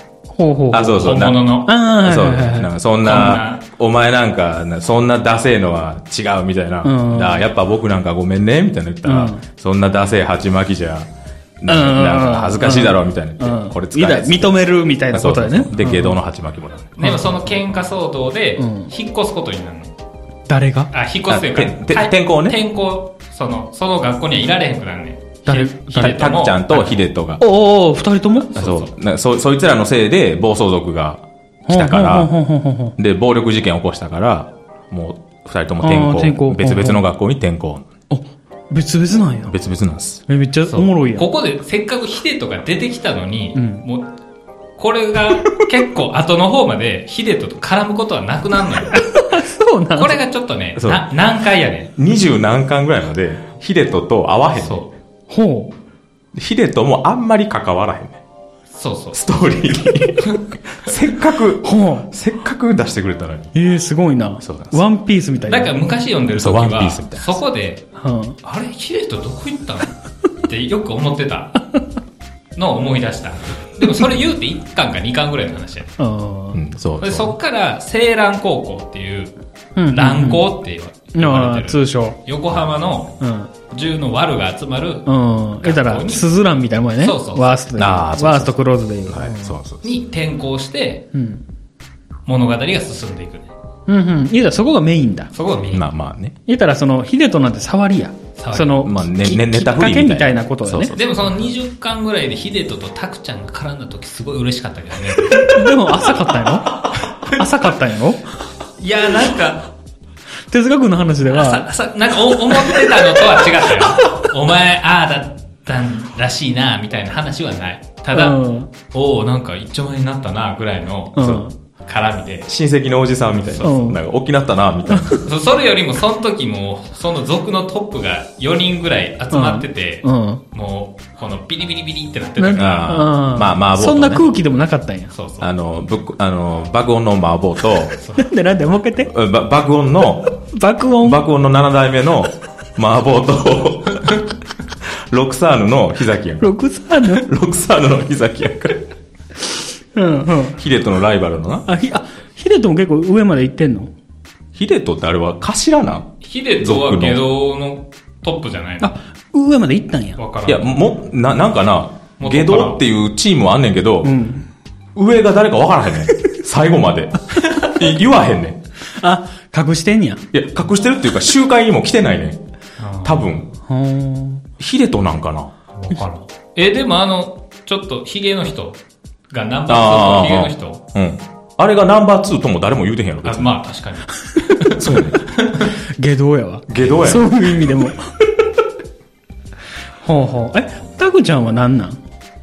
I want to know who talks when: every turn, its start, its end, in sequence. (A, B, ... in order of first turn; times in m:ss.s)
0:00.4-0:02.7 A
0:00.7-0:01.4 B
0:00.8-0:01.7 C
0:02.0-0:17.0 B
0:03.0-0:03.6 C
0:06.8-0:07.4 A
0:09.0-0:09.4 A
0:11.7-0:16.2 A
0:17.0-0:19.9 C
0:17.0-0:17.4 A
0:18.6-0:18.9 A
0:20.5-0:20.9 A
0:20.9-0:27.1 C
0:21.3-0:22.6 B
0:25.5-0:26.2 A
0:25.9-0:27.4 B
0:27.4-0:28.5 A
0:28.5-0:28.9 C
0:28.6-0:32.3 B
0:31.7-0:33.0 A
0:33.0-0:37.9 B
0:35.8-0:37.0 A
0:38.1-0:39.6 A
0:39.5-0:40.2 B
0:40.3-0:41.3 A
0:40.7-0:44.1 C
0:43.6-0:43.8 A
0:44.8-0:49.0 C
0:48.9-0:50.2 A
0:50.0-0:51.9 C
0:50.8-0:51.0 B
0:52.0-0:54.8 B
0:54.6-0:54.9 C
0:55.3-0:55.7 A
0:56.3-0:58.2 B
0:58.7-0:59.2 C
0:59.1-1:03.5 B
1:01.6-1:02.1 A
1:03.5-1:05.7 A
1:04.4-1:04.8 B
1:05.5-1:07.8 C
1:06.3-1:07.4 B
1:08.0-1:08.4 A
1:08.4-1:10.0 C
1:10.5-1:11.6 C
1:12.6-1:16.0 C
1:16.0-1:16.6 A
1:16.5-1:17.4 B
1:17.0-1:19.3 C
1:19.8-1:20.4 A
1:19.9-1:23.2 C
1:21.2-1:22.2 A
1:23.2-1:23.5 A
1:23.7-1:25.1 C
1:25.1-1:29.6 A
1:25.6-1:26.3 C
1:27.0-1:27.5 C
1:27.8-1:30.0 B
1:29.8-1:31.0 C
1:31.1-1:31.4 A
1:32.3-1:33.5 C
1:33.9-1:35.3 A
1:35.3-1:35.8 C
1:35.7-1:36.4 B
1:36.5-1:41.0 A
1:38.4-1:38.8 C
1:38.8-1:41.0 B
1:40.9-1:45.6 C
1:45.3-1:48.3 A
1:48.8-1:49.7 C
1:50.5-1:51.7 A
1:51.3-1:58.4 C
1:52.5-1:53.4 A
1:58.1-1:58.7 A
1:58.9-2:01.2 C
2:01.2-2:01.5 A
2:01.2-2:01.4 B
2:01.9-2:02.5 C
2:02.5-2:05.3 B
2:03.4-2:03.7 C
2:03.6-2:04.0 A
2:04.9-2:05.2 A
2:05.2-2:13.1 C
2:09.3-2:10.4 A
2:12.4-2:15.1 A
2:12.6-2:14.3 B
2:15.1-2:15.5 C
2:15.4-2:18.0 B
2:18.0-2:18.3 C
2:18.2-2:19.1 A
2:19.1-2:20.3 B
2:20.4-2:21.2 A
2:21.0-2:24.2 B
2:25.1-2:28.9 B
2:26.4-2:27.3 A
2:29.9-2:30.6 A
2:30.6-2:31.7 B
2:31.7-2:33.9 A
2:34.6-2:37.2 B
2:36.2-2:38.9 C
2:38.8-2:40.2 A
2:40.2-2:40.7 C
2:40.5-2:44.1 B
2:42.2-2:42.8 C
2:44.0-2:44.5 A
2:45.0-2:48.6 B
2:49.0-2:50.2 A
2:50.3-2:52.4 B
2:52.8-2:53.4 C
2:53.0-2:53.5 B
2:53.7-2:54.4 A
2:54.6-2:55.5 B
2:55.7-2:58.8 C
2:59.3-3:00.8 C
2:59.7-3:03.6 B
3:03.2-3:05.7 C
3:04.7-3:05.3 B
3:05.6-3:08.1 A
3:06.7-3:07.3 B
3:10.0-3:12.0 A